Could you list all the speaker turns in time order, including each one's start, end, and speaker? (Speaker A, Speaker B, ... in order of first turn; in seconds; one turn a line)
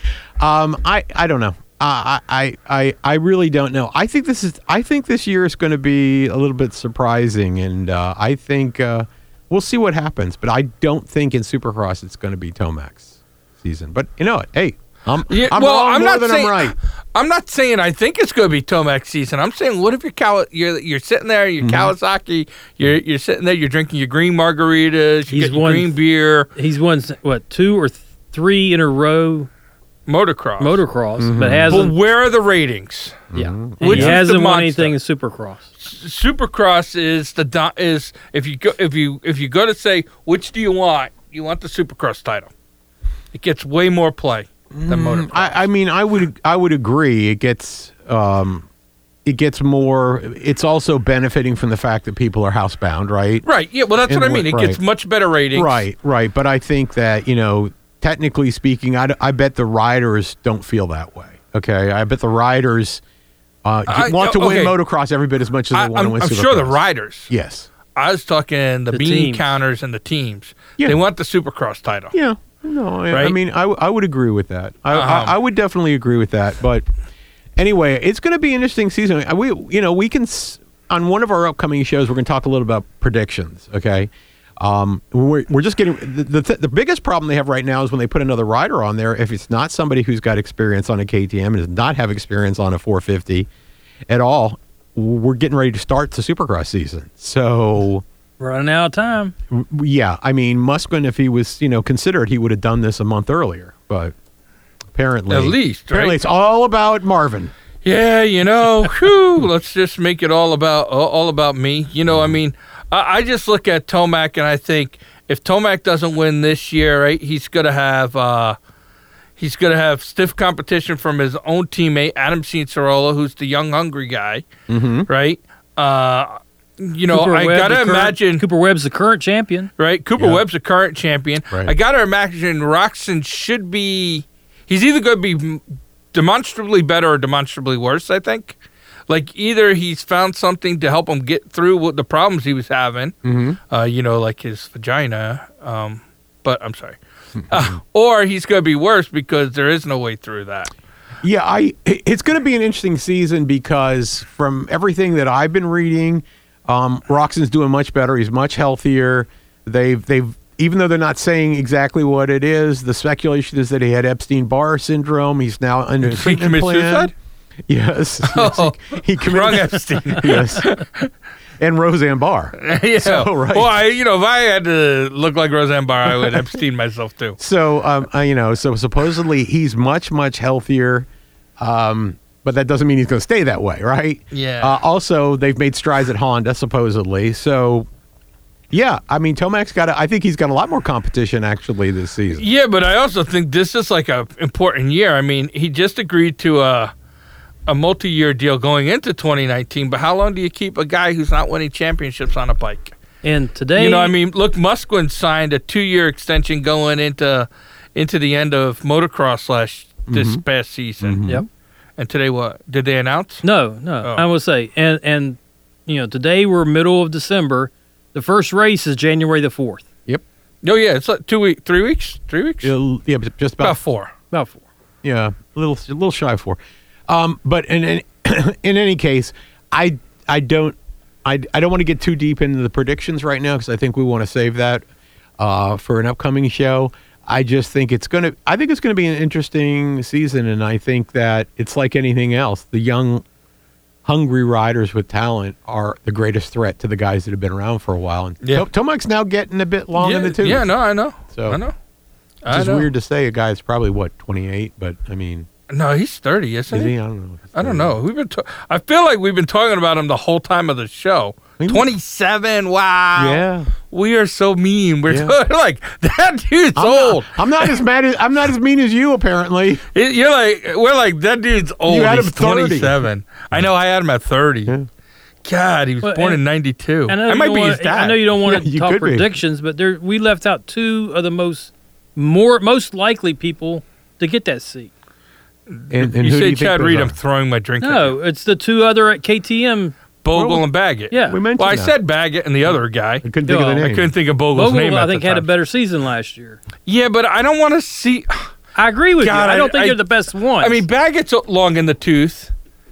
Speaker A: 0.4-16.8
Speaker B: 15.3-26.5
Speaker A: 21.6-21.9
Speaker C: 25.3-26.0
Speaker C: 26.5-29.5
Speaker B: 30.1-30.8
Speaker C: 30.6-31.9
Speaker A: 31.2-31.8
Speaker B: 31.7-33.3
Speaker A: 33.3-34.2
Speaker C: 33.3-35.7
Speaker B: 33.8-34.9
Speaker B: 35.8-42.5
Speaker B: 43.3-45.6
Speaker A: 44.7-48.7
Speaker A: 49.2-53.5
Speaker B: 53.4-55.8
Speaker A: 54.0-54.8
Speaker A: 55.5-63.0
Speaker A: 63.6-66.8
Speaker B: 63.9-64.7
Speaker B: 65.7-67.3
Speaker A: 67.3-67.7
Speaker B: 67.9-72.1
Speaker C: 68.9-69.5
Speaker A: 72.1-76.8
Speaker B: 73.1-73.3
Speaker B: 74.9-75.3
Speaker A: 77.6-93.5
Speaker A: 94.1-98.0
Speaker C: 98.4-99.3
Speaker A: 99.5-104.1
Speaker A: 104.9-107.5
Speaker B: 105.3-106.2
Speaker B: 107.8-118.6
Speaker A: 112.1-112.4
Speaker B: 119.4-124.5
Speaker A: 124.7-125.1
Speaker B: 125.1-128.4
Speaker C: 127.1-129.7
Speaker B: 129.8-135.6
Speaker A: 130.2-130.4
Speaker B: 136.1-138.6
Speaker B: 139.1-143.2
Speaker A: 143.2-143.6
Speaker B: 143.7-150.7
Speaker A: 151.2-167.1
Speaker B: 166.0-167.1
Speaker A: 167.7-170.7
Speaker B: 168.3-171.1
Speaker A: 171.6-173.8
Speaker B: 172.6-177.4
Speaker A: 177.4-181.1
Speaker A: 181.6-187.9
Speaker B: 184.3-184.8
Speaker A: 188.7-192.4
Speaker B: 192.3-196.9
Speaker B: 197.7-202.9
Speaker C: 203.2-204.1
Speaker B: 203.8-211.3
Speaker A: 210.1-210.4
Speaker A: 211.0-211.4
Speaker B: 212.0-213.4
Speaker C: 213.4-219.8
Speaker B: 220.6-222.7
Speaker A: 222.6-223.8
Speaker B: 223.6-224.1
Speaker C: 224.3-224.6
Speaker A: 225.0-234.8
Speaker A: 235.4-243.2
Speaker A: 244.0-250.7
Speaker B: 249.9-251.7
Speaker A: 251.3-251.6
Speaker B: 252.4-252.9
Speaker A: 252.5-255.5
Speaker B: 255.7-256.9
Speaker A: 256.7-258.0
Speaker B: 257.5-267.8
Speaker A: 261.6-261.9
Speaker A: 263.1-263.7
Speaker A: 265.1-265.3
Speaker A: 266.8-269.8
Speaker B: 269.9-274.7
Speaker A: 271.9-273.0
Speaker B: 275.4-278.3
Speaker C: 276.0-276.4
Speaker C: 277.1-284.9
Speaker A: 278.4-279.3
Speaker B: 285.7-288.1
Speaker A: 285.9-287.1
Speaker C: 287.8-289.9
Speaker B: 290.2-295.5
Speaker A: 290.3-290.6
Speaker C: 291.1-291.4
Speaker A: 291.2-291.9
Speaker A: 293.2-294.1
Speaker C: 293.4-293.9
Speaker C: 294.5-296.6
Speaker B: 296.9-298.5
Speaker C: 298.8-300.8
Speaker B: 299.2-300.0
Speaker B: 300.6-302.5